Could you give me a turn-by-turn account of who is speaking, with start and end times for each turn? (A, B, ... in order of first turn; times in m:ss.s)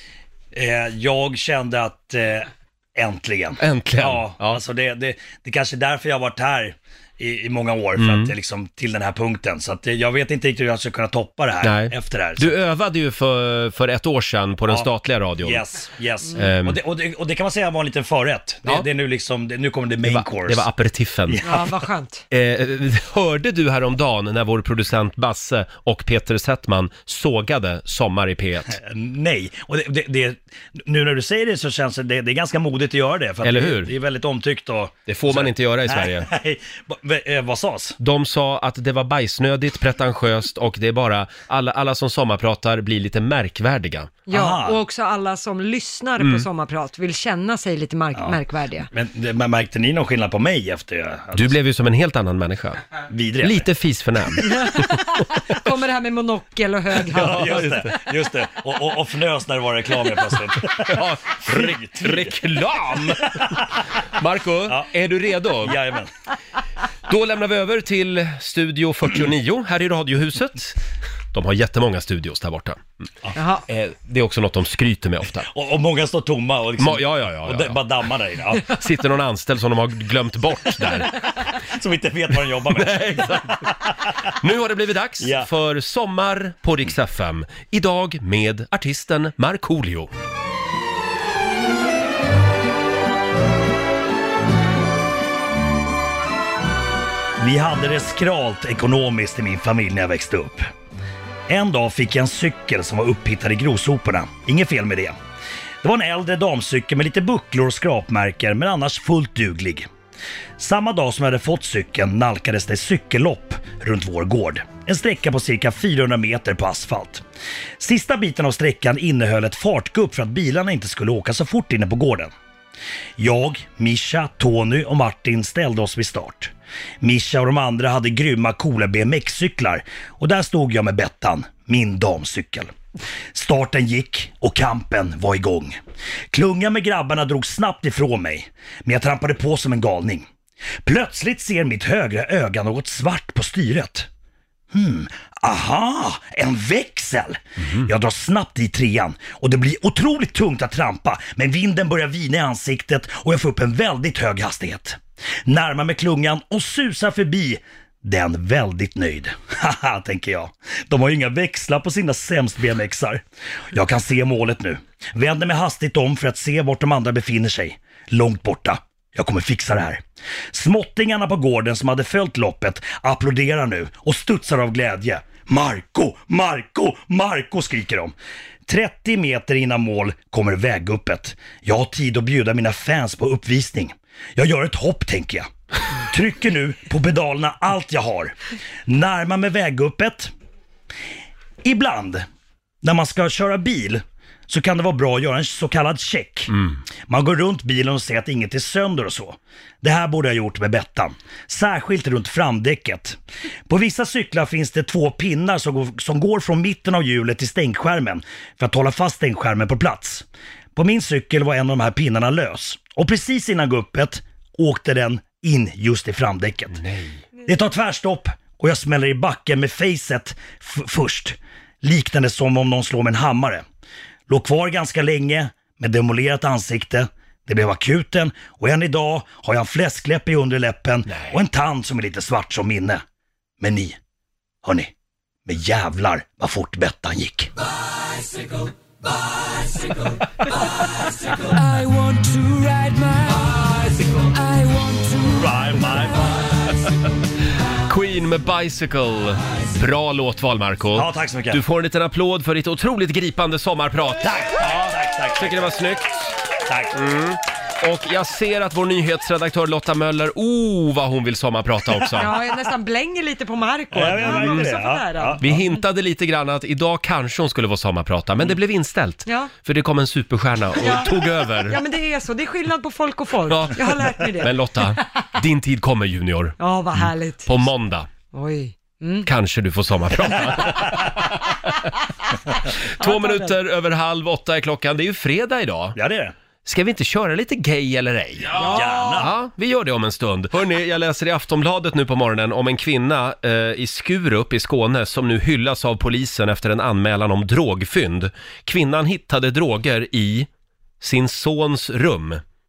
0:00.5-0:12.6 A
0:03.6-0:04.6 B
0:08.0-0:08.3 B
0:11.6-0:15.6 B
0:15.4-0:20.7 A
0:16.4-0:16.8 B
0:20.0-0:21.4 B
0:21.3-0:21.6 A
0:21.4-0:22.2 C
0:22.3-0:28.8 B
0:28.7-0:38.0 A
0:33.4-0:33.9 B
0:35.1-0:36.3 B
0:38.0-0:44.2 B
0:44.3-0:48.9 C
0:44.3-0:44.8 A
0:46.2-0:46.4 B
0:48.9-0:51.6 A
0:51.3-0:52.8 B
0:53.1-0:53.7 A
0:53.4-0:54.9 B
0:54.5-0:57.6 C
0:57.1-1:03.6 A
0:57.2-0:57.9 B
1:00.8-1:03.6 B
1:04.2-1:05.8 B
1:05.6-1:06.1 A
1:07.1-1:10.8 B
1:11.3-1:12.9 B
1:13.4-1:13.6 C
1:13.7-1:15.5 B
1:15.5-1:18.6 A
1:16.8-1:17.8 B
1:18.6-1:21.1 B
1:21.6-1:23.7 A
1:22.7-1:23.7 B
1:24.4-1:30.1 B
1:25.2-1:25.5 A
1:37.4-1:40.7 A
1:41.5-1:45.2 A
1:45.8-1:49.9 A
1:50.6-1:57.2 A
1:57.8-2:02.3 A
2:03.2-2:12.7 A
2:13.3-2:15.8 A
2:16.3-2:20.3 A
2:20.8-2:24.1 A
2:24.7-2:58.1 A
2:27.6-2:27.9 B
2:58.7-3:05.5 A
3:06.0-3:08.3 A
3:08.8-3:10.3 A
3:11.6-3:12.2 A
3:12.8-3:16.5 A
3:17.1-3:36.8 A
3:36.7-3:37.2 B
3:37.4-3:43.6 A
3:44.3-3:53.0 A
3:51.1-3:51.4 B
3:53.6-3:54.0 A
3:54.6-3:54.9 A
3:55.4-3:57.5 A
4:05.2-4:06.5 A
4:07.8-4:16.3 B
4:10.9-4:11.6 A
4:14.2-4:15.8 A
4:16.6-4:16.9 A
4:16.9-4:22.3 B
4:22.1-4:25.6 C
4:23.9-4:25.6 A
4:24.2-4:24.6 B
4:25.4-4:31.8 B
4:29.2-4:29.5 C
4:30.8-4:35.2 C
4:33.4-4:38.1 B
4:36.6-4:37.6 C
4:38.3-4:39.3 C
4:39.2-4:41.9 B
4:43.0-4:46.0 B
4:43.0-4:43.6 C
4:45.9-4:46.3 A
4:46.6-5:00.5 B
4:48.5-4:49.2 C
4:48.6-4:49.3 A
5:01.0-5:02.4 B